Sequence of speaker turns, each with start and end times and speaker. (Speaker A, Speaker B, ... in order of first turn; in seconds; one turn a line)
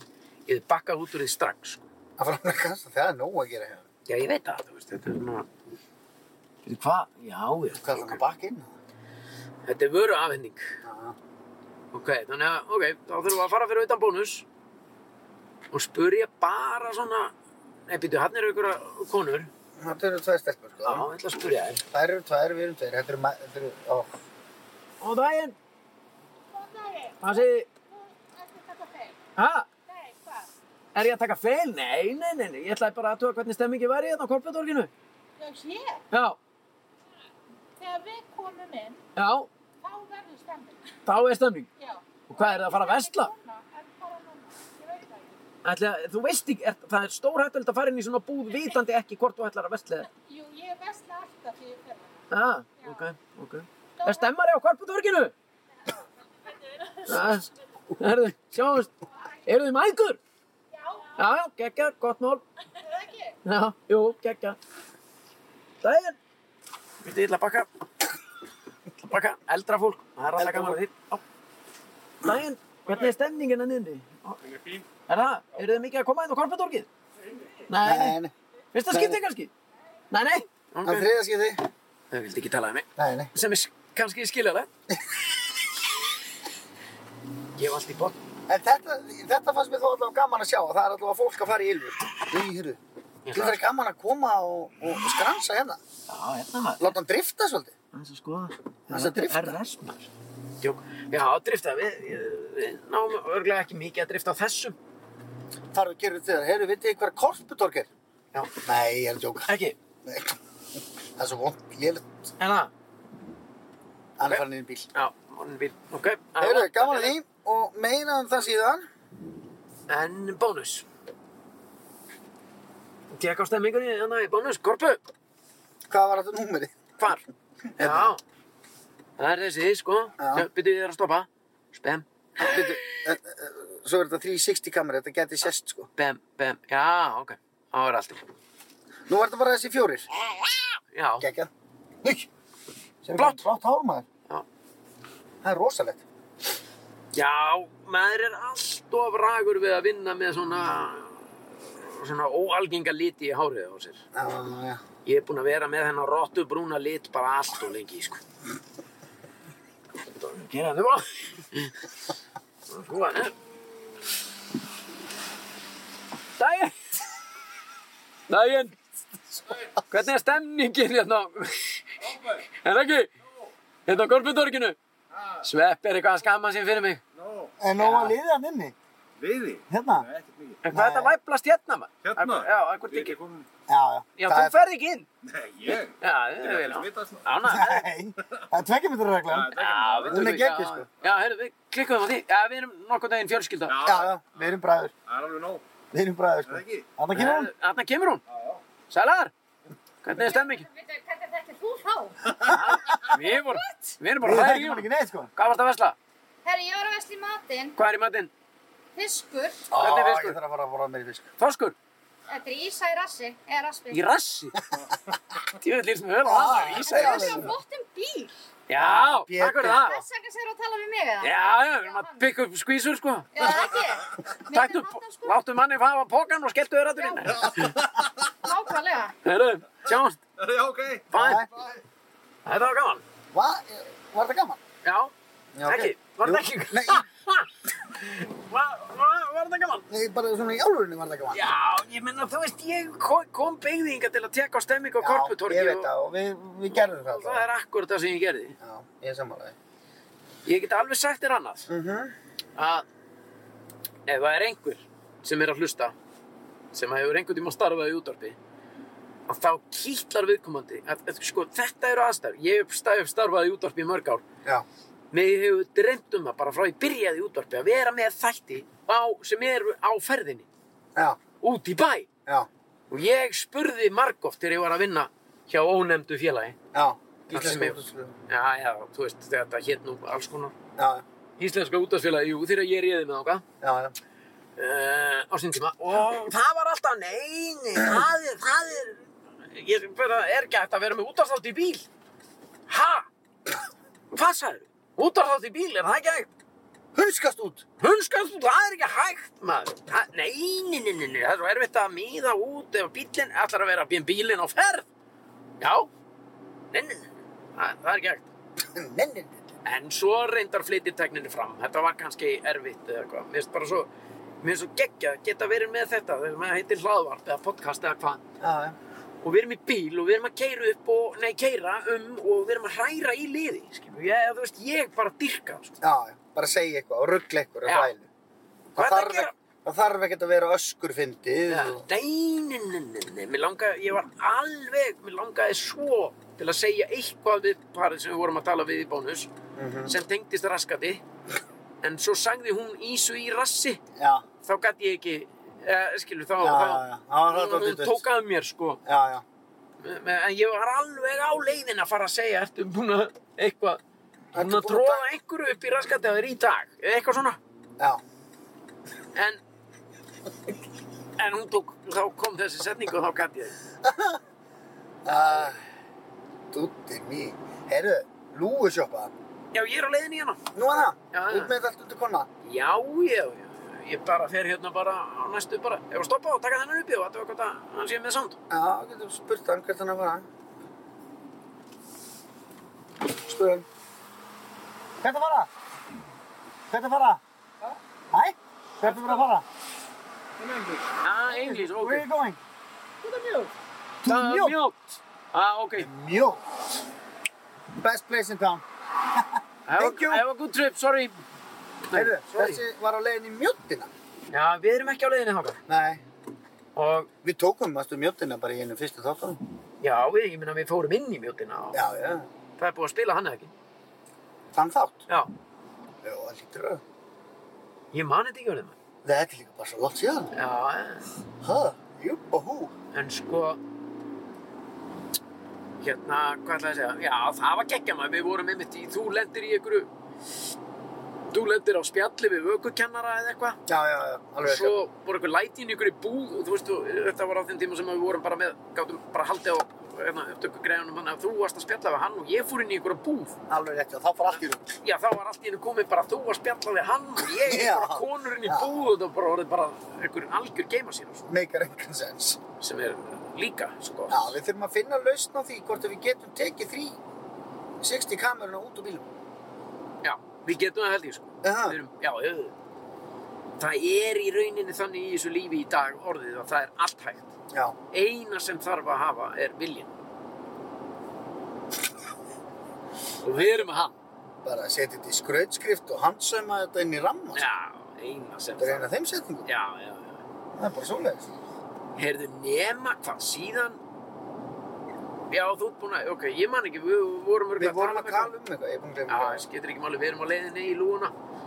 Speaker A: 0.5-1.9
Speaker B: 2.2-3.8
Speaker A: 4.1-5.5
Speaker A: 6.6-8.2
Speaker B: 7.7-8.7
Speaker A: 9.7-10.8
Speaker B: 10.8-11.2
Speaker A: 11.9-14.4
Speaker A: 15.7-17.3
Speaker A: 17.9-19.5
Speaker B: 19.8-21.1
Speaker A: 20.8-21.8
Speaker B: 21.9-24.2
Speaker A: 25.0-25.6
Speaker C: 26.5-29.2
Speaker A: 27.2-27.7
Speaker A: 29.4-29.7
Speaker C: 29.9-30.5
Speaker A: 30.9-34.9
Speaker C: 35.4-36.0
Speaker A: 36.1-36.4
Speaker C: 37.8-39.0
Speaker A: 39.1-39.5
Speaker C: 39.8-41.0
Speaker A: 41.0-41.7
Speaker C: 41.8-45.4
Speaker A: 42.3-43.3
Speaker A: 45.6-50.1
Speaker C: 50.1-52.3
Speaker A: 52.3-55.3
Speaker C: 54.0-54.3
Speaker C: 56.4-57.3
Speaker A: 57.0-58.9
Speaker A: 59.5-60.2
Speaker C: 60.7-61.2
Speaker A: 61.1-62.4
Speaker C: 62.7-63.4
Speaker A: 63.4-64.6
Speaker A: 65.8-66.2
Speaker A: 67.0-67.7
Speaker A: 69.0-71.2
Speaker B: 70.3-70.8
Speaker A: 72.2-74.4
Speaker D: 74.4-74.9
Speaker A: 75.1-76.9
Speaker D: 77.2-77.5
Speaker A: 77.7-78.2
Speaker B: 77.8-78.3
Speaker A: 78.7-79.5
Speaker B: 78.9-79.2
Speaker A: 80.1-81.1
Speaker B: 80.8-81.6
Speaker A: 82.1-84.7
Speaker B: 83.0-83.3
Speaker A: 87.5-88.2
Speaker B: 88.5-92.8
Speaker A: 93.2-93.6
Speaker B: 93.3-95.8
Speaker A: 96.1-96.9
Speaker B: 96.8-97.7
Speaker A: 97.9-100.1
Speaker B: 98.9-99.6
Speaker A: 100.6-104.8
Speaker B: 105.7-107.9
Speaker B: 108.6-109.5
Speaker A: 109.5-109.8
Speaker B: 110.0-112.0
Speaker A: 112.4-112.7
Speaker B: 114.2-114.9
Speaker A: 114.2-117.2
Speaker B: 116.4-118.8
Speaker A: 119.9-120.8
Speaker A: 123.1-125.0
Speaker B: 125.9-126.8
Speaker A: 127.0-127.2
Speaker B: 127.8-128.1
Speaker A: 127.8-128.2
Speaker A: 129.2-133.1
Speaker B: 130.2-130.5
Speaker B: 132.4-135.9
Speaker A: 135.9-138.3
Speaker B: 139.1-140.1
Speaker A: 140.9-141.3
Speaker B: 141.2-141.5
Speaker B: 142.0-142.3
Speaker B: 143.0-144.1
Speaker A: 143.2-143.4
Speaker B: 145.4-146.0
Speaker A: 147.1-154.0
Speaker B: 154.1-154.8
Speaker A: 155.1-158.2
Speaker A: 160.1-161.7
Speaker A: 162.7-163.3
Speaker A: 166.4-166.8
Speaker A: 168.3-168.7
Speaker A: 169.9-172.0
Speaker D: 172.0-172.4
Speaker A: 172.6-173.1
Speaker A: 173.9-174.8
Speaker D: 175.1-175.4
Speaker A: 175.4-177.0
Speaker D: 177.2-177.5
Speaker B: 177.6-178.7
Speaker A: 177.8-178.1
Speaker D: 179.2-180.6
Speaker B: 179.7-180.1
Speaker A: 180.6-183.2
Speaker B: 180.7-181.1
Speaker D: 182.0-183.5
Speaker B: 183.7-184.7
Speaker A: 184.2-185.1
Speaker D: 185.2-187.2
Speaker A: 186.0-187.9
Speaker B: 187.4-190.9
Speaker D: 189.3-190.4
Speaker A: 189.5-193.8
Speaker D: 193.7-194.5
Speaker B: 193.8-194.9
Speaker D: 195.1-195.6
Speaker B: 195.9-197.5
Speaker D: 196.5-196.8
Speaker A: 197.1-198.2
Speaker D: 198.3-198.6
Speaker A: 198.9-199.3
Speaker A: 200.0-200.7
Speaker C: 200.2-203.9
Speaker A: 202.4-205.9
Speaker B: 202.5-202.8
Speaker B: 204.2-205.3
Speaker C: 206.4-207.7
Speaker A: 207.8-208.3
Speaker C: 208.9-209.7
Speaker B: 209.7-211.3
Speaker A: 209.8-210.4
Speaker A: 211.4-211.7
Speaker C: 212.3-214.0
Speaker A: 213.9-214.6
Speaker A: 215.6-217.5
Speaker B: 216.2-217.5
Speaker C: 216.7-218.3
Speaker A: 218.7-220.0
Speaker B: 218.8-220.0
Speaker C: 219.6-222.2
Speaker A: 221.2-223.6
Speaker C: 223.3-225.4
Speaker A: 224.5-227.8
Speaker C: 227.0-227.7
Speaker D: 227.4-228.1
Speaker C: 228.3-229.1
Speaker A: 229.2-230.2
Speaker D: 230.4-231.1
Speaker A: 231.1-231.4
Speaker B: 231.1-231.5
Speaker A: 232.4-233.0
Speaker B: 233.3-234.6
Speaker A: 234.8-235.1
Speaker B: 235.5-237.1
Speaker A: 235.6-239.9
Speaker B: 239.9-241.5
Speaker A: 241.3-245.9
Speaker B: 245.0-247.5
Speaker A: 246.9-248.6
Speaker B: 248.6-249.5
Speaker A: 250.4-251.7
Speaker B: 251.7-252.1
Speaker A: 252.6-252.8
Speaker A: 254.1-255.9
Speaker A: 256.7-258.4
Speaker A: 259.3-264.2
Speaker A: 265.1-270.5
Speaker A: 271.4-272.1
Speaker A: 272.9-276.6
Speaker B: 276.7-278.1
Speaker A: 277.3-280.5
Speaker B: 280.8-281.0
Speaker A: 281.4-283.4
Speaker B: 283.6-283.9
Speaker A: 284.6-291.9
Speaker A: 292.7-293.1
Speaker A: 294.1-296.3
Speaker B: 296.9-297.6
Speaker A: 297.8-304.9
Speaker A: 305.6-305.9
Speaker A: 306.7-308.3
Speaker B: 308.6-309.3
Speaker A: 309.6-313.9
Speaker A: 314.4-318.2
Speaker B: 318.4-318.8
Speaker A: 319.2-325.8
Speaker B: 325.8-328.1
Speaker A: 327.7-327.9
Speaker B: 328.7-331.8
Speaker A: 328.8-329.3
Speaker A: 331.5-339.3
Speaker B: 339.6-339.9
Speaker A: 339.9-341.0
Speaker A: 341.8-343.8
Speaker B: 343.9-344.2
Speaker A: 344.4-348.8
Speaker B: 346.4-348.0
Speaker B: 348.8-349.2
Speaker A: 349.8-353.8
Speaker B: 354.3-355.1
Speaker A: 354.4-357.4
Speaker A: 359.1-359.4
Speaker A: 361.2-363.6
Speaker B: 363.8-364.2
Speaker B: 365.0-365.6
Speaker B: 366.5-369.1
Speaker A: 369.5-370.4
Speaker B: 370.5-372.3
Speaker A: 371.1-371.5
Speaker A: 372.4-378.4
Speaker B: 378.5-380.2
Speaker B: 383.1-383.6
Speaker B: 385.0-385.5
Speaker B: 386.7-387.2
Speaker B: 388.1-389.4
Speaker D: 390.4-390.9
Speaker A: 391.0-392.0
Speaker B: 391.3-392.4
Speaker A: 393.0-393.5
Speaker B: 394.0-394.6
Speaker A: 394.1-395.9
Speaker B: 395.8-396.4
Speaker B: 397.8-400.2
Speaker A: 399.7-401.2
Speaker A: 401.9-402.6
Speaker B: 401.9-403.9
Speaker A: 404.3-405.6
Speaker B: 405.7-406.0
Speaker A: 406.8-407.1
Speaker B: 407.2-409.4
Speaker A: 409.8-411.8
Speaker B: 411.7-412.3
Speaker A: 412.6-413.5
Speaker B: 414.5-415.1
Speaker B: 416.0-416.8
Speaker A: 417.9-418.8
Speaker B: 419.0-420.3
Speaker A: 420.3-421.1
Speaker B: 421.4-422.7
Speaker A: 422.9-423.6
Speaker A: 425.8-429.9
Speaker A: 431.3-433.6
Speaker B: 433.7-434.8
Speaker A: 434.4-443.4
Speaker B: 443.5-444.7
Speaker A: 444.8-451.3
Speaker B: 447.2-448.7
Speaker B: 451.3-452.4
Speaker A: 452.6-454.4
Speaker B: 454.1-457.0
Speaker B: 457.8-459.1
Speaker A: 460.0-462.5
Speaker B: 461.4-461.8
Speaker A: 463.6-467.3
Speaker A: 467.9-469.9
Speaker A: 473.2-473.9
Speaker B: 474.4-477.5
Speaker A: 477.3-478.9
Speaker B: 478.6-479.5
Speaker A: 479.4-480.2
Speaker B: 480.5-481.3
Speaker A: 481.9-483.8
Speaker A: 485.3-488.3
Speaker B: 487.6-489.4
Speaker A: 489.1-491.1